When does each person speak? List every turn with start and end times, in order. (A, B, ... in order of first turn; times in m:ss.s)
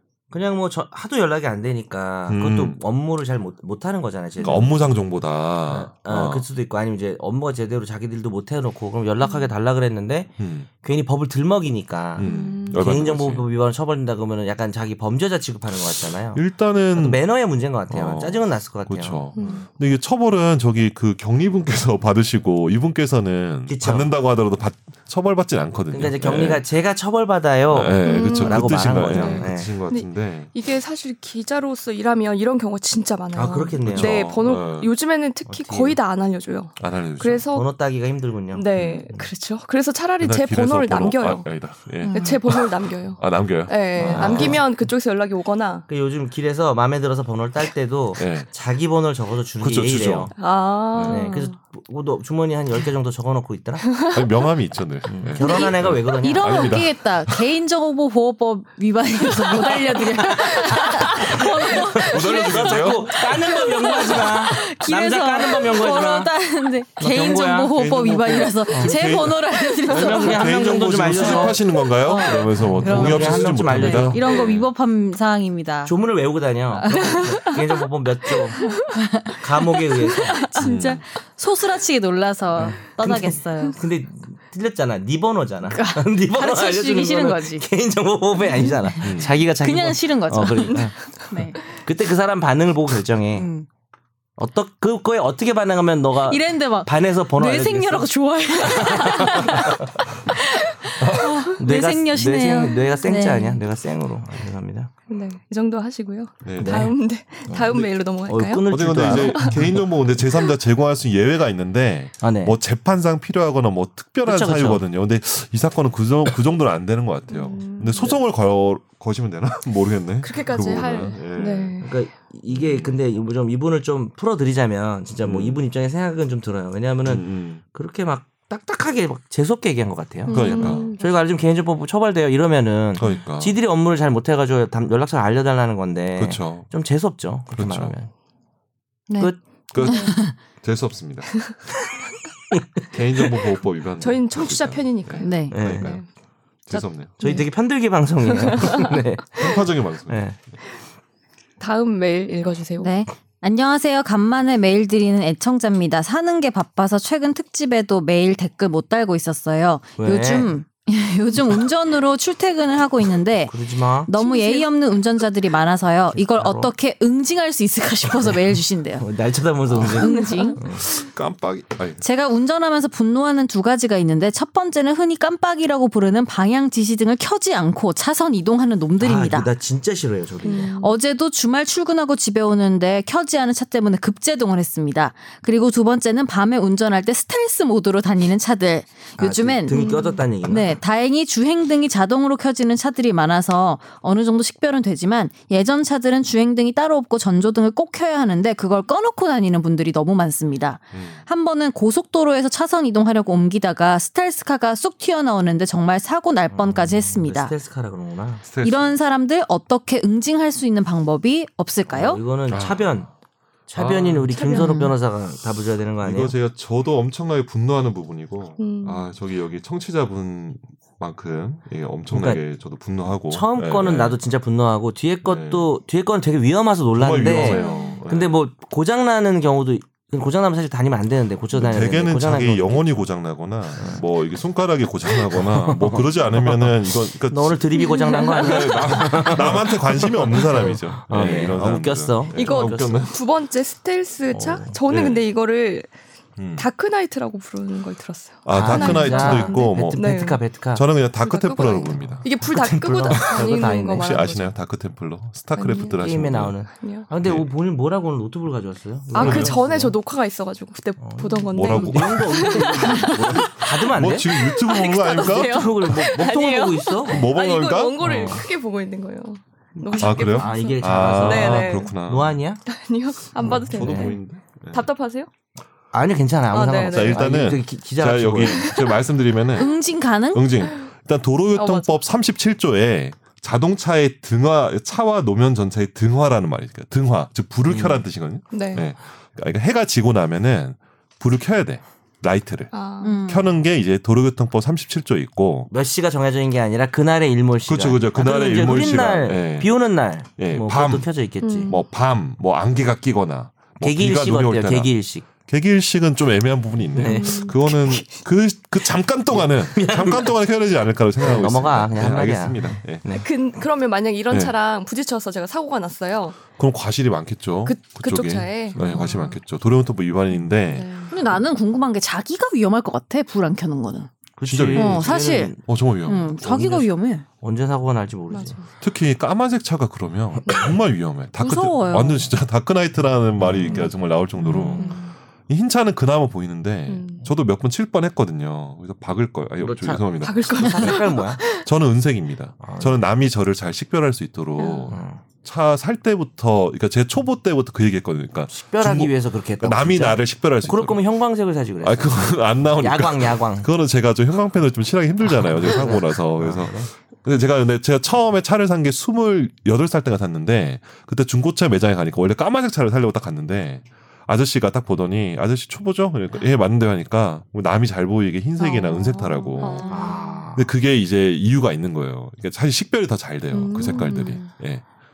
0:00.3-0:04.9 A
0:02.3-0:02.8 B
0:04.4-0:04.7 C
0:04.4-0:06.4 B
0:05.7-0:16.4 A
0:09.2-0:09.5 C
0:10.4-0:10.7 B
0:12.2-0:13.5 B
0:12.2-0:12.9 C
0:16.3-0:17.2 B
0:17.0-0:19.2 A
0:17.9-0:26.6 B
0:19.3-0:19.7 C
0:23.7-0:24.1 A
0:25.9-0:29.7 A
0:27.7-0:30.5 B
0:28.0-0:37.7 C
0:33.3-0:34.4 A
0:33.8-0:34.9 B
0:35.5-0:36.0 A
0:36.8-0:37.5 B
0:37.5-0:39.3 A
0:38.5-0:41.5 C
0:38.8-0:39.1 B
0:40.2-0:44.6 B
0:42.0-0:42.4 D
0:42.1-0:45.9 C
0:44.0-0:44.6 A
0:45.9-0:50.3 A
0:48.2-0:48.5 B
0:49.6-0:50.3 B
0:50.4-0:51.5 C
0:50.9-0:51.3 B
0:51.0-0:53.9 A
0:53.9-0:54.3 C
0:54.1-0:57.4 B
0:55.1-0:56.8 A
0:55.4-1:10.5 D
1:00.0-1:06.3 A
1:01.9-1:03.4 B
1:07.0-1:07.8 A
1:07.8-1:14.7 B
1:08.7-1:09.0 A
1:09.9-1:11.6 A
1:11.2-1:15.9 D
1:12.6-1:14.3 A
1:15.8-1:18.7 A
1:16.8-1:17.3 D
1:16.9-1:17.6 C
1:18.6-1:19.0 C
1:19.0-1:19.3 D
1:19.4-1:20.5 A
1:19.8-1:21.0 C
1:20.6-1:21.0 B
1:20.6-1:23.8 D
1:22.6-1:31.0 A
1:25.7-1:27.6 D
1:29.0-1:29.3 B
1:29.4-1:31.6 D
1:31.7-1:33.5 A
1:33.3-1:33.7 D
1:34.4-1:39.9 A
1:36.3-1:43.6 D
1:41.6-1:44.9 A
1:45.1-1:49.8 C
1:46.4-1:46.9 B
1:46.6-1:47.0 A
1:47.5-1:49.8 A
1:48.7-2:01.9 B
1:52.2-1:52.6 A
1:54.2-1:54.8 A
1:57.3-1:58.2 C
2:00.2-2:01.9 C
2:01.8-2:18.1 A
2:02.5-2:03.0 B
2:05.2-2:05.6 B
2:07.0-2:07.6 B
2:10.3-2:11.0 C
2:10.3-2:10.9 B
2:13.0-2:13.6 B
2:16.2-2:16.7 B
2:17.6-2:17.9 B
2:19.1-2:20.4 D
2:19.7-2:21.4 B
2:22.5-2:23.4 A
2:22.9-2:26.0 B
2:24.0-2:26.1 C
2:25.2-2:25.6 D
2:25.5-2:26.0 A
2:26.7-2:27.1 B
2:26.7-2:27.4 C
2:27.2-2:30.4 A
2:28.4-2:28.9 C
2:29.4-2:30.4 B
2:31.6-2:32.9 C
2:32.8-2:43.6 D
2:40.0-2:40.5 A
2:43.5-2:44.1 A
2:44.1-2:49.0 D
2:44.2-2:44.7 C
2:46.1-2:46.7 A
2:48.2-2:50.9 A
2:49.8-2:50.6 D
2:49.9-2:50.6 C
2:50.9-2:52.0 B
2:52.0-2:59.5 D
2:59.0-3:00.7 A
3:00.4-3:01.0 C
3:00.8-3:27.5 D
3:09.2-3:10.8 A
3:09.7-3:10.2 C
3:20.9-3:21.2 B
3:26.5-3:28.4 A
3:28.4-3:28.9 B
3:28.6-3:32.2 D
3:31.9-3:33.1 A
3:32.5-3:33.1 B
3:33.7-3:36.4 A
3:33.8-3:34.3 B
3:34.3-3:34.8 C
3:34.5-3:35.0 D
3:36.0-3:44.2 B
3:38.6-3:39.0 C
3:42.1-3:42.4 A
3:43.3-3:52.9 A
3:45.2-3:45.7 B
3:47.0-3:48.4 B
3:47.3-3:48.0 C
3:51.5-4:03.2 B
3:53.8-3:54.0 A
3:55.3-4:03.1 A
3:57.8-3:59.3 C
4:00.3-4:00.6 C
4:02.4-4:05.9 C
4:04.3-4:04.8 A
4:04.9-4:05.2 B
4:06.4-4:06.7 B
4:06.6-4:10.5 C
4:08.5-4:10.2 B
4:08.5-4:10.9 A
4:10.7-4:12.2 B
4:11.2-4:14.5 C
4:12.3-4:14.2 A
4:13.1-4:16.6 B
4:15.6-4:16.0 C
4:16.0-4:20.0 A
4:16.8-4:17.1 C
4:17.2-4:17.5 B
4:19.1-4:31.9 C
4:19.1-4:19.6 B
4:21.0-4:24.5 A
4:21.5-4:26.1 B
4:25.1-4:27.3 A
4:27.1-4:28.4 B
4:28.0-4:28.5 A
4:29.8-4:32.6 A
4:30.0-4:32.4 B
4:32.7-4:34.2 C
4:33.4-4:34.2 A
4:33.4-4:34.9 B
4:34.7-4:35.3 C
4:35.9-4:38.8 A
4:36.5-4:37.2 C
4:36.9-4:39.8 B
4:38.5-4:39.0 C
4:39.6-4:40.5 D
4:40.3-4:52.7 B
4:41.6-4:41.9 C
4:47.7-4:48.1 A
4:48.5-4:48.9 C
4:52.7-4:53.2 C
4:53.0-4:53.5 D
4:53.3-4:55.7 B
4:55.7-5:01.8 A
4:57.7-4:59.7 B
5:00.4-5:01.1 B
5:01.4-5:01.8 C
5:01.7-5:04.9 B
5:03.8-5:05.3 A
5:05.4-5:13.0 B
5:07.0-5:07.6 A
5:07.0-5:08.2 C
5:09.3-5:10.3 A
5:11.2-5:13.3 A
5:13.1-5:16.4 C
5:16.6-5:20.9 B
5:17.6-5:19.4 C
5:18.7-5:19.1 A
5:20.6-5:21.2 C
5:21.1-5:24.1 D
5:24.4-5:25.6 A
5:24.5-5:26.9 B
5:24.7-5:25.6 D
5:26.1-5:27.2 D
5:27.4-5:28.6 A
5:28.3-5:28.7 C
5:28.8-5:35.0 B
5:30.5-5:30.7 C
5:31.4-5:32.3 D
5:33.4-5:33.9 A
5:34.5-5:35.0 A
5:34.5-5:35.2 C
5:35.5-5:51.0 B
5:36.9-5:37.2 C
5:39.6-5:41.4 A
5:40.2-5:41.7 C
5:42.6-5:43.0 A
5:44.6-5:44.9 C
5:44.9-5:45.2 A
5:48.5-5:53.7 A
5:51.8-6:14.8 B
5:55.3-5:56.9 A
6:08.6-6:10.4 C
6:09.8-6:10.7 A
6:13.5-6:14.5 C